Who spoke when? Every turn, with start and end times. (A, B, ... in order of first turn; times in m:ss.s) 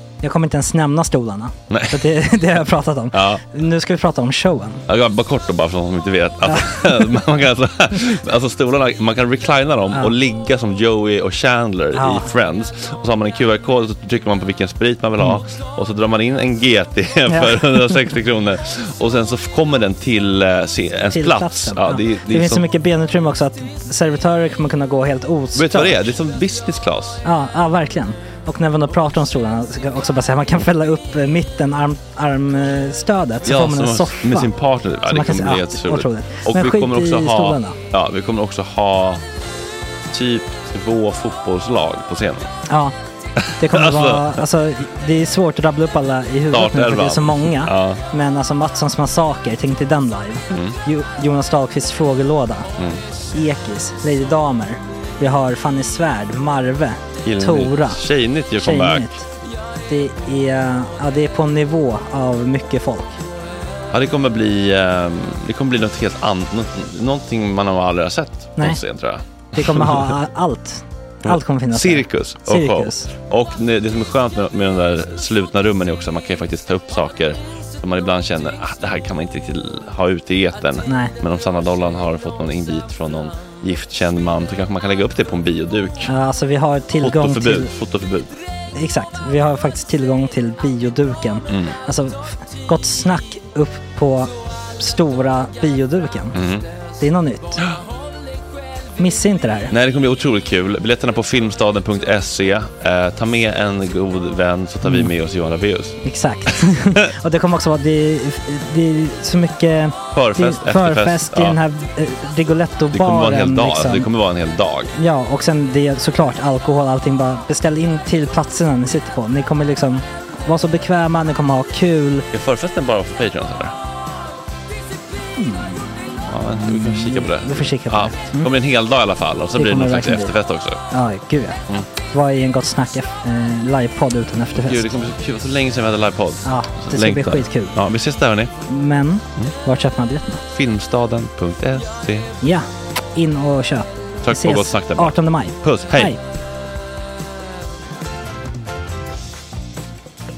0:00.2-0:04.8 A
0:01.7-0:02.0 B
0:03.1-0:03.4 B
0:04.9-0:22.7 B
0:06.5-0:07.1 A
0:11.9-0:12.3 A
0:17.3-0:18.0 A
0:21.1-0:26.1 A
0:25.6-0:27.2 B
0:27.2-0:34.5 A
0:33.4-0:39.2 B
0:35.1-0:37.8 A
0:40.1-0:42.5 B
0:42.7-0:43.0 A
0:43.4-0:44.4 B
0:43.6-0:52.7 A
0:46.5-0:48.0 B
0:50.5-0:50.8 B
0:53.3-0:58.1 A
0:57.2-0:59.2 B
0:58.6-0:59.3 A
0:59.9-1:03.2 A
1:03.9-1:10.0 B
1:09.6-1:13.1 A
1:11.2-1:26.1 B
1:20.9-1:21.1 A
1:26.0-1:27.7 A
1:27.0-1:28.3 B
1:28.7-1:36.4 A
1:31.5-1:31.8 B
1:36.3-1:36.6 B
1:37.0-1:37.6 A
1:39.0-1:39.7 A
1:39.7-1:46.5 B
1:44.8-1:45.1 A
1:46.0-1:54.1 A
1:50.1-1:51.6 B
1:52.9-1:54.9 B
1:55.0-2:02.2 A
2:02.3-2:03.8 B
2:05.4-2:08.5 A
2:06.2-2:10.8 B
2:09.5-2:10.3 A
2:10.9-2:15.0 A
2:14.6-2:18.5 B
2:16.4-2:17.8 A
2:18.7-2:20.4 A
2:20.5-2:22.3 B
2:22.4-2:26.2 A
2:24.2-2:26.2 B